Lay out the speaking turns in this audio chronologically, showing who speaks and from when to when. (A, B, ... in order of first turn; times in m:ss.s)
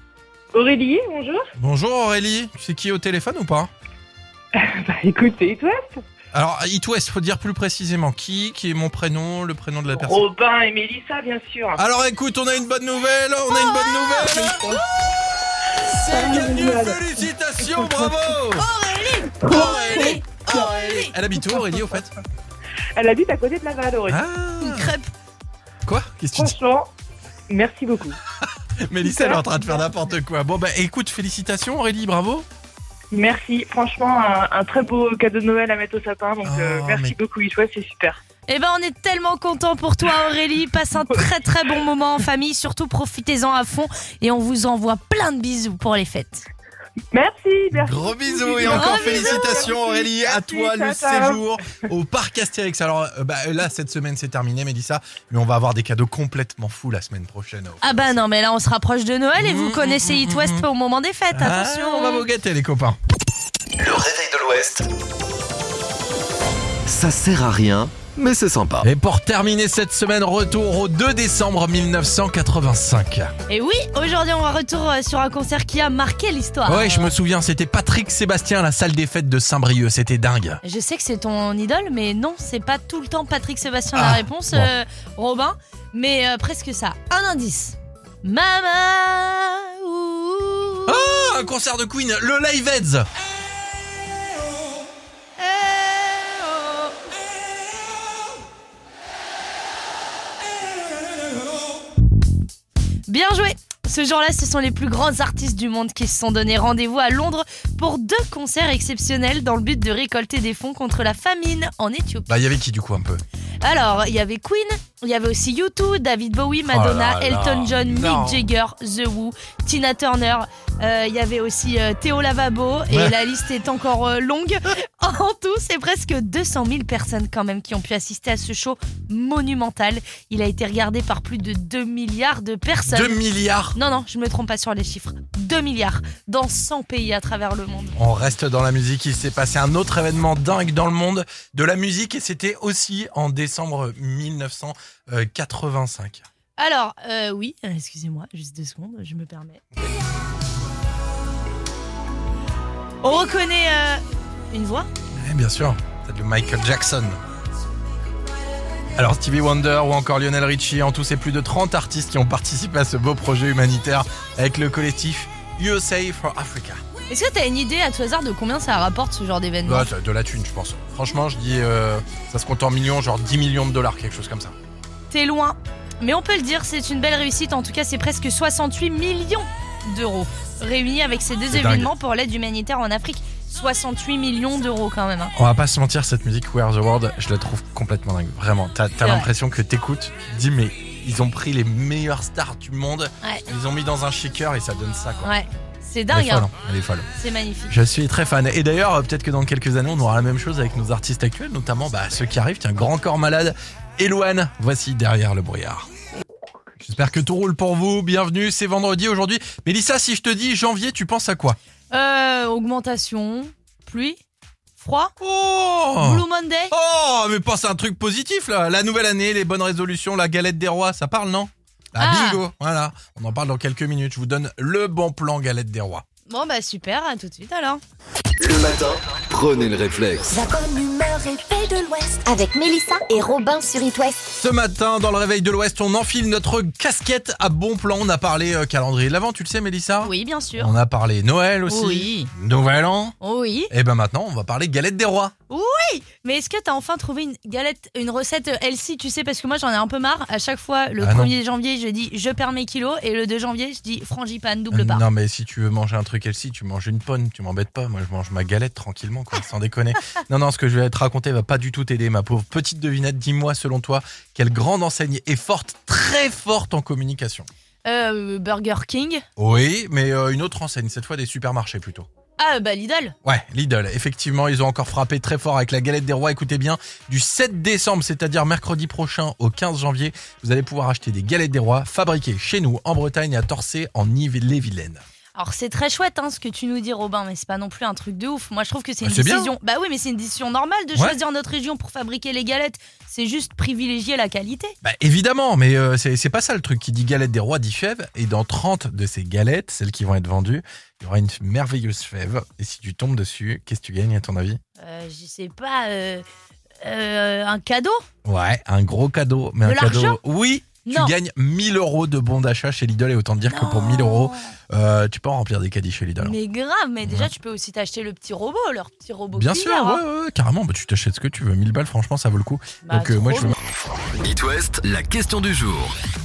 0:00.5-0:01.5 A
0:01.6-0:03.7 B
0:04.6-0:06.0 A
0:06.3-0:10.2 B
0:09.9-0:11.8 A
0:11.8-0:15.2 B
0:14.1-0:14.8 A
0:15.8-0:18.7 B
0:15.9-0:18.4 A
0:18.5-0:21.1 C
0:19.3-0:22.0 A
0:19.4-0:22.1 B
0:23.0-0:24.2 A
0:24.1-0:24.9 B
0:24.6-0:25.1 C
0:25.8-0:26.6 B
0:26.3-0:26.9 A
0:27.5-0:28.2 A
0:28.8-0:32.4 B
0:29.0-0:29.8 A
0:33.1-0:38.2 A
0:36.4-0:37.2 B
0:38.5-0:46.4 C
0:47.1-0:51.4 A
0:47.7-0:58.2 B
0:48.6-0:49.6 C
0:57.8-1:02.2 C
0:59.4-1:00.7 B
1:01.3-1:03.0 B
1:03.8-1:04.9 D
1:06.8-1:08.9 D
1:08.8-1:13.3 B
1:13.5-1:17.1 C
1:16.6-1:20.6 B
1:20.6-1:31.4 C
1:23.9-1:24.7 B
1:30.9-1:33.1 B
1:35.4-1:36.9 C
1:43.1-1:52.3 C
1:52.3-1:53.2 B
1:53.6-2:13.2 C
1:56.7-1:58.4 B
2:02.9-2:03.2 B
2:12.8-2:13.8 B
2:13.7-2:18.0 C
2:18.0-2:26.2 B
2:26.6-2:29.6 C
2:33.0-2:34.9 C
2:35.1-2:37.2 B
2:39.0-2:46.8 B
2:47.1-2:49.9 C
2:49.6-2:54.5 B
2:55.1-3:05.3 C
3:01.5-3:01.9 B
3:05.3-3:15.3 B
3:09.0-3:09.3 C
3:15.2-3:16.5 C
3:16.1-3:17.1 B
3:17.2-3:17.7 C
3:17.7-3:25.9 B
3:26.8-3:31.6 B
3:31.9-3:34.2 C
3:34.8-3:35.1 C
3:35.2-3:46.0 B
3:36.0-3:36.7 C
3:42.0-3:42.4 C
3:46.3-3:47.8 C
3:48.4-3:50.3 D
3:50.3-3:54.3 E
3:54.4-4:03.2 B
4:00.0-4:00.8 C
4:01.7-4:02.3 C
4:03.2-4:03.7 C
4:03.7-4:05.3 B
4:05.5-4:15.0 C
4:11.0-4:11.3 B
4:14.7-4:27.5 B
4:27.8-4:29.2 C
4:29.4-4:32.1 B
4:32.4-4:33.1 C
4:33.2-4:45.0 B
4:45.3-4:54.8 C
4:49.0-4:49.5 B
4:54.8-5:04.6 B
5:04.8-5:06.2 C
5:06.8-5:08.0 C
5:08.2-5:16.4 B
5:09.6-5:10.2 C
5:10.8-5:11.1 C
5:13.5-5:14.5 C
5:16.2-5:20.0 C
5:17.0-5:17.3 B
5:19.3-5:23.6 B
5:22.8-5:23.6 C
5:24.1-5:25.9 D